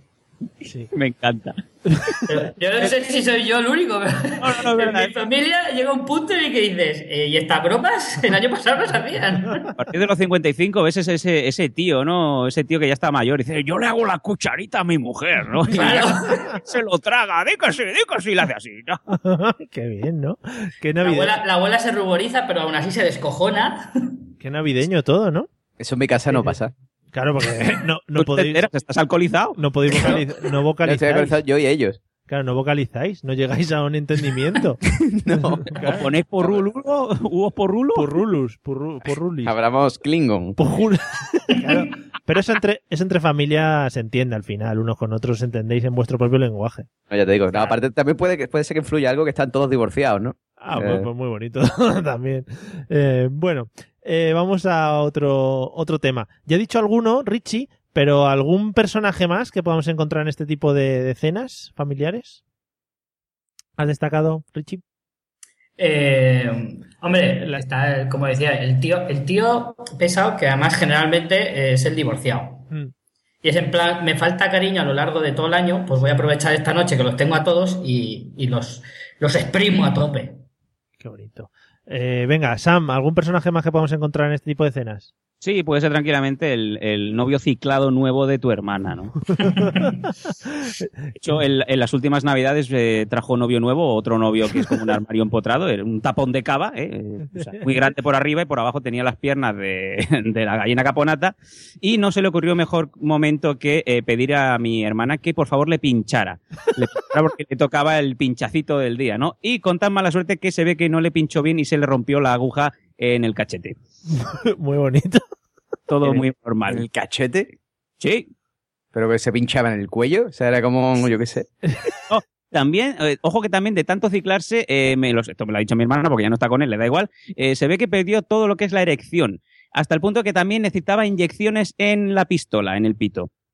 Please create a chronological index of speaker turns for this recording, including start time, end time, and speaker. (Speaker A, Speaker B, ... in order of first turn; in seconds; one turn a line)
Speaker A: 0.7-0.9
Speaker B: 0.9-2.1
Speaker A: 1.9-2.2
Speaker C: 2.3-9.7
Speaker B: 4.4-5.1
Speaker B: 9.8-19.0
Speaker C: 15.7-16.4
Speaker A: 19.1-21.3
Speaker C: 21.0-24.1
Speaker A: 24.4-25.5
Speaker D: 25.8-26.7
Speaker A: 26.3-26.6
Speaker A: 27.1-28.6
Speaker B: 28.2-30.1
Speaker A: 29.6-31.4
Speaker C: 29.9-30.2
Speaker D: 30.8-32.0
Speaker A: 32.3-34.8
Speaker D: 34.9-35.7
Speaker A: 35.4-36.0
Speaker B: 35.9-38.1
Speaker D: 36.4-36.7
Speaker A: 38.0-39.5
Speaker D: 39.1-40.6
Speaker A: 40.6-46.9
Speaker D: 47.1-51.1
Speaker A: 50.6-62.4
Speaker A: 63.8-64.8
Speaker C: 65.8-72.7
Speaker C: 73.4-80.4
Speaker A: 81.0-85.1
Speaker B: 85.4-89.2
Speaker C: 89.5-89.9
Speaker B: 91.2-113.8
Speaker A: 114.1-115.2
Speaker B: 115.9-116.8
Speaker D: 116.0-117.5
Speaker B: 118.0-118.3
Speaker D: 118.9-121.5
Speaker B: 122.1-133.3